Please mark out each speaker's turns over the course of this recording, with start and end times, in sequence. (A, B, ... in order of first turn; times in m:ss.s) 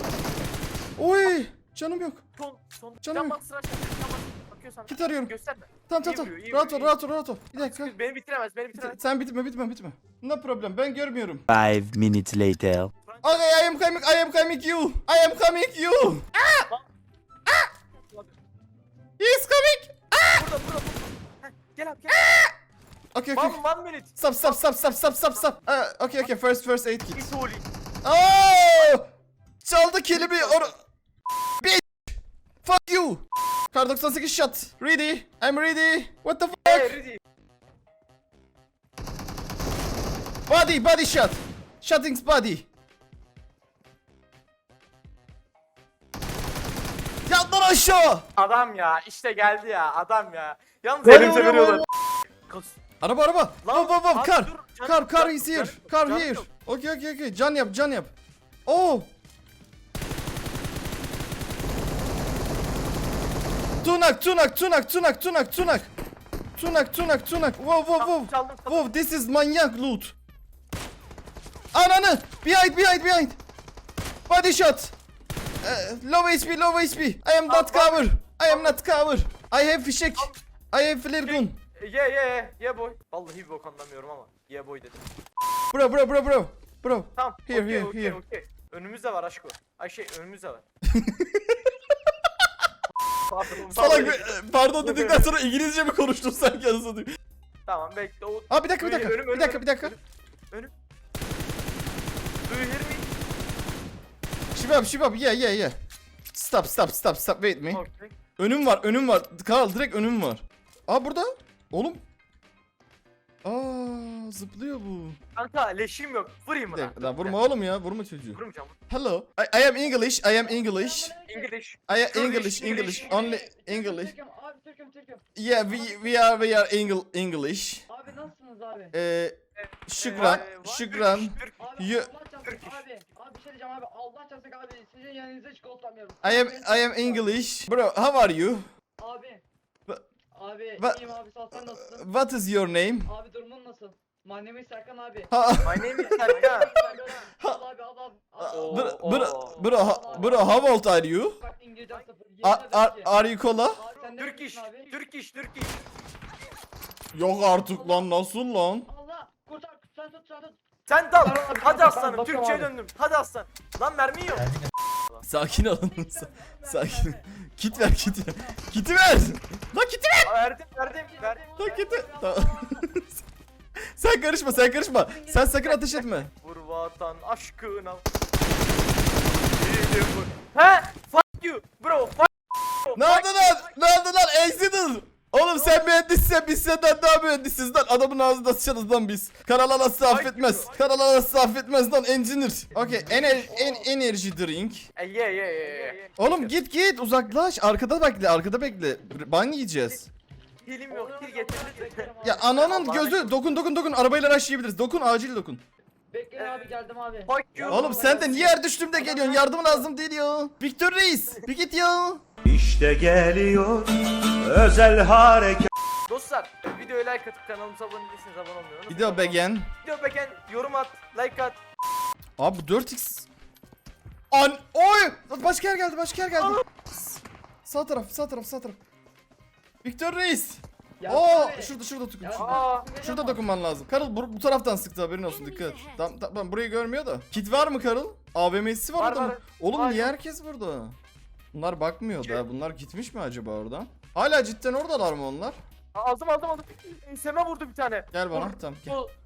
0:01.0-0:02.2 A
0:02.4-0:06.9 B
0:03.0-0:03.4 A
0:04.9-0:05.3 A
0:05.9-0:07.9 A
0:07.6-0:09.0 B
0:08.7-0:11.4 A
0:11.5-0:12.9 C
0:13.1-0:13.7 B
0:13.2-0:16.6 A
0:19.2-0:20.4 A
0:20.3-0:22.2 B
0:22.1-0:22.5 A
0:23.1-0:23.6 A
0:23.3-0:24.8 B
0:24.2-0:27.2 A
0:27.1-0:27.6 B
0:28.0-0:29.0 A
0:29.6-0:30.7 A
0:30.1-0:30.7 B
0:31.6-0:32.1 A
0:32.6-0:37.0 A
0:36.6-0:37.2 B
0:40.5-0:42.6 A
0:47.2-0:48.3 A
0:48.4-0:51.9 B
0:51.1-0:51.8 A
0:52.4-0:52.8 B
0:53.0-0:58.1 A
0:53.6-0:56.5 B
0:58.6-0:59.1 A
1:03.8-1:05.9 A
1:06.6-1:10.1 A
1:08.0-1:08.9 B
1:11.7-1:13.4 A
1:14.3-1:14.9 A
1:15.6-1:21.6 A
1:17.5-1:18.8 B
1:21.2-1:25.0 B
1:25.7-1:28.2 A
1:27.2-1:30.6 B
1:30.9-1:31.7 A
1:33.1-1:34.3 B
1:33.7-1:37.1 A
1:34.8-1:35.3 B
1:37.7-1:40.0 B
1:38.5-1:39.9 A
1:42.5-1:43.0 B
1:44.5-1:45.7 A
1:46.3-1:47.8 A
1:47.7-1:48.1 B
1:48.4-1:52.0 A
1:53.4-1:55.2 A
1:55.4-1:57.4 B
1:56.7-2:01.2 A
1:58.3-1:58.7 B
2:00.6-2:01.5 D
2:01.3-2:03.2 B
2:01.9-2:04.1 A
2:02.6-2:05.2 D
2:05.3-2:07.9 A
2:05.8-2:06.1 D
2:07.9-2:08.9 D
2:08.9-2:12.1 A
2:09.6-2:11.7 B
2:11.6-2:17.3 D
2:12.4-2:12.8 B
2:16.2-2:18.6 A
2:19.0-2:19.4 D
2:20.3-2:22.0 D
2:20.8-2:23.1 A
2:23.1-2:25.3 D
2:25.3-2:27.6 A
2:25.6-2:26.7 B
2:25.9-2:28.6 D
2:28.4-2:31.4 A
2:28.4-2:30.4 B
2:29.6-2:30.6 D
2:31.4-2:33.1 D
2:32.4-2:33.8 A
2:33.8-2:34.9 D
2:33.9-2:35.8 B
2:37.1-2:38.9 A
2:37.7-2:38.1 D
2:38.9-2:40.6 D
2:40.9-2:45.2 B
2:41.2-2:42.7 D
2:45.2-2:50.3 A
2:46.2-2:47.2 D
2:50.2-2:51.4 B
2:50.8-2:52.8 D
2:51.6-2:53.2 A
2:53.9-2:56.3 A
2:55.0-2:55.4 D
2:55.6-2:58.0 B
2:59.5-3:03.7 B
3:03.0-3:14.9 A
3:05.5-3:05.8 B
3:10.1-3:10.8 B
3:12.8-3:13.8 D
3:15.0-3:16.5 B
3:16.2-3:20.1 A
3:20.6-3:23.3 B
3:20.9-3:22.4 D
3:22.2-3:25.6 A
3:26.1-3:29.5 D
3:26.4-3:26.7 B
3:27.2-3:28.2 B
3:27.7-3:32.2 A
3:32.5-3:35.7 E
3:36.1-3:41.6 B
3:38.9-3:39.7 A
3:42.4-3:43.3 A
3:44.3-3:46.6 A
3:47.6-3:48.8 A
3:49.8-4:01.0 A
3:51.0-3:53.4 D
3:52.4-3:52.9 B
3:55.3-3:56.0 C
3:59.0-4:00.2 B
4:01.5-4:05.6 A
4:05.9-4:09.1 B
4:08.1-4:09.0 A